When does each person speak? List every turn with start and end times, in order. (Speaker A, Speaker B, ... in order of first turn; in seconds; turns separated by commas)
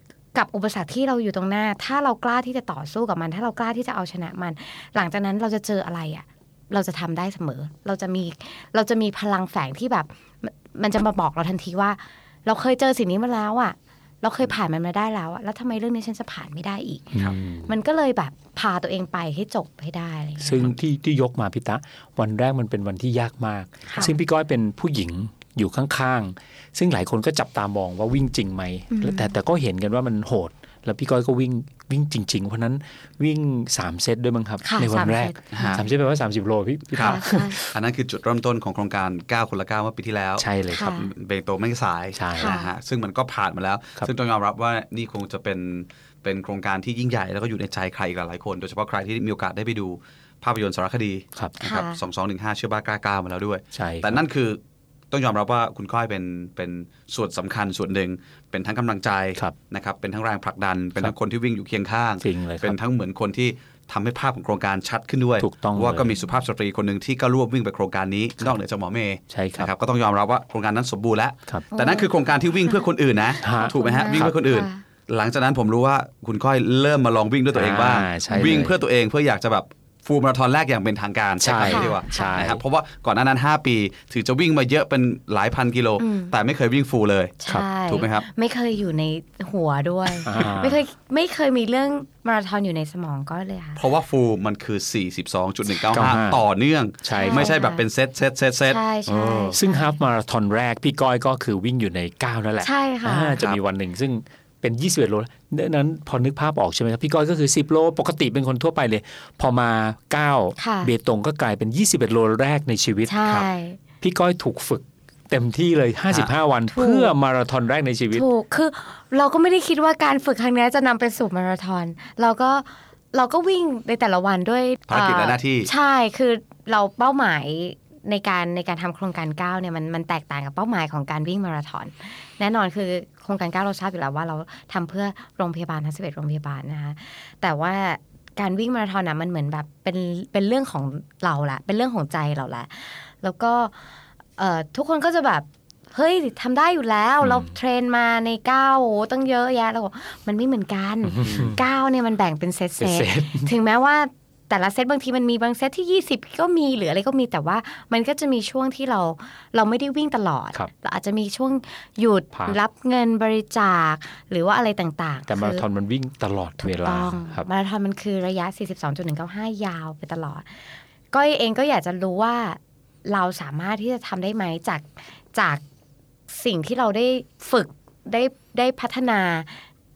Speaker A: 0.3-20.7, Speaker B: 17.1-17.7, Speaker B: 20.4-37.8, Speaker A: 23.9-24.1, Speaker A: 28.9-29.3, Speaker A: 34.6-35.8, Speaker C: 35.5-35.8, Speaker C: 36.9-54.6, Speaker A: 37.0-37.6, Speaker B: 40.4-41.0, Speaker A: 40.7-41.1, Speaker B: 42.1-42.6, Speaker A: 42.4-42.7, Speaker A: 51.6-52.0, Speaker B: 53.7-54.2, Speaker C: 55.1-87.4, Speaker B: 62.2-62.8, Speaker B: 65.4-66.2, Speaker B: 69.3-69.7, Speaker A: 71.7-72.1, Speaker A: 73.3-74.8, Speaker B: 73.4-74.4, Speaker B: 77.5-78.8, Speaker B: 81.4-82.6, Speaker A: 81.6-82.4, Speaker A: 86.0-86.3, Speaker A: 87.4-93.8, Speaker C: 87.9-88.3, Speaker B: 90.2-90.8, Speaker C: 93.8-99.6, Speaker B: 95.9-96.4, Speaker B: 97.0-97.5, Speaker A: 97.1-97.8, Speaker A: 98.7-99.9, Speaker B: 99.5-113.2, Speaker A: 102.6-103.4, Speaker A: 110.6-110.9, Speaker A: 113.1-113.8, Speaker B: 114.0-118.3, Speaker A: 116.7-117.1, Speaker A: 118.1-143.8, Speaker C: 124.9-125.7, Speaker A: 144.4-165.6, Speaker B: 147.2-147.5, Speaker B: 151.1-151.6, Speaker C: 151.2-151.6, Speaker B: 152.8-153.5, Speaker B: 162.3-162.6, Speaker B: 165.3-167.5, Speaker A: 166.6-175.6, Speaker A: 176.3-179.6